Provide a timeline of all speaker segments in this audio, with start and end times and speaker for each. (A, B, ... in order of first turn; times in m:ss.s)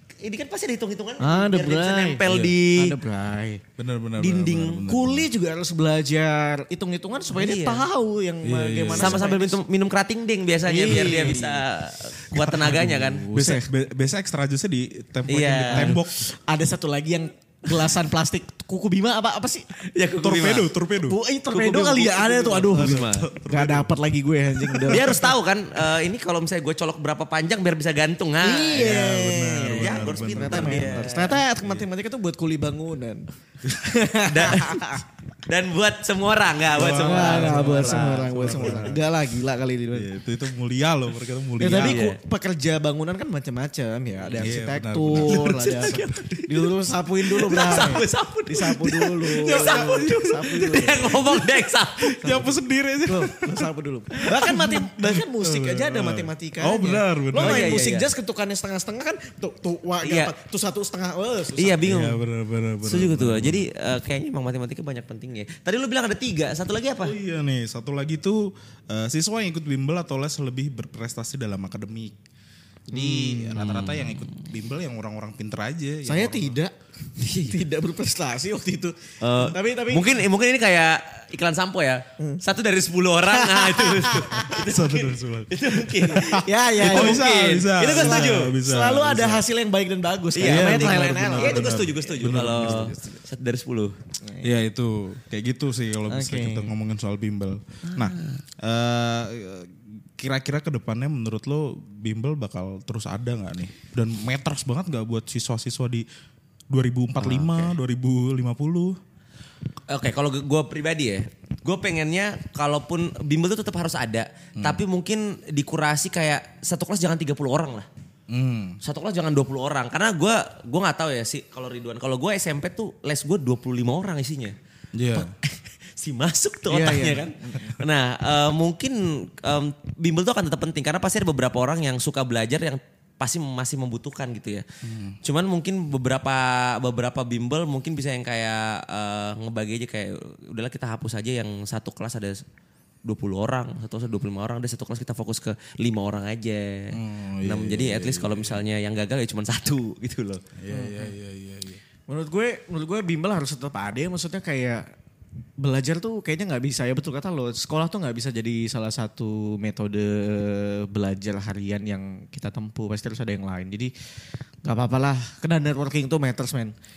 0:00.2-0:03.0 A
0:01.2-0:03.6 B
0:03.8-0:05.3 C
0:04.2-0:04.9 A
0:04.9-0:09.6 B
0:07.3-0:07.9 A
0:08.4-0:09.2 C
0:09.0-0:13.3 A
0:10.6-0:11.6 B
0:12.3-0:16.3 C
0:13.2-0:13.7 B
0:15.3-0:16.0 A
0:15.7-0:19.8 B
0:19.9-0:20.7 A
0:20.2-0:21.2 C
0:21.0-0:25.3 B
0:21.5-0:23.3 A
0:22.6-0:23.9 C
0:24.5-0:25.2 C
0:24.9-0:31.4 A
0:28.4-0:35.0 B
0:28.7-0:31.9 C
0:34.3-0:34.9 A
0:35.5-0:38.9 A
0:36.7-0:39.0 C
0:37.0-0:40.1 B
0:39.9-0:42.1 C
0:41.6-0:51.3 B
0:41.8-0:42.2 A
0:44.2-0:44.5 A
0:44.4-0:46.0 C
0:45.2-0:46.7 A
0:47.3-0:52.2 A
0:49.3-0:51.5 C
0:52.0-0:57.8 C
0:52.2-0:52.5 B
0:53.1-1:01.8 B
0:57.4-0:58.1 A
1:00.0-1:00.3 A
1:01.6-1:02.2 A
1:01.8-1:03.7 C
1:02.8-1:07.2 A
1:07.0-1:12.2 C
1:12.9-1:16.6 C
1:12.9-1:13.6 B
1:13.6-1:14.3 A
1:16.0-1:16.7 B
1:17.2-1:17.7 A
1:17.4-1:20.2 B
1:19.2-1:28.6 A
1:23.3-1:24.5 B
1:24.5-1:29.4 C
1:26.2-1:33.2 B
1:30.3-1:34.0 A
1:30.4-1:33.0 C
1:34.2-1:34.5 B
1:34.4-1:46.1 C
1:36.1-1:36.7 B
1:37.9-1:38.4 A
1:46.7-1:49.0 C
1:47.2-1:47.8 A
1:49.9-1:57.9 A
1:58.3-1:58.8 C
1:58.8-2:04.6 A
2:04.9-2:05.3 C
2:05.1-2:14.6 A
2:06.7-2:07.8 B
2:14.8-2:15.2 C
2:15.2-2:22.4 A
2:23.1-2:30.4 A
2:26.9-2:28.6 C
2:30.6-2:31.8 C
2:30.7-2:31.1 B
2:32.1-2:34.8 B
2:35.6-2:43.9 B
2:44.6-2:46.7 B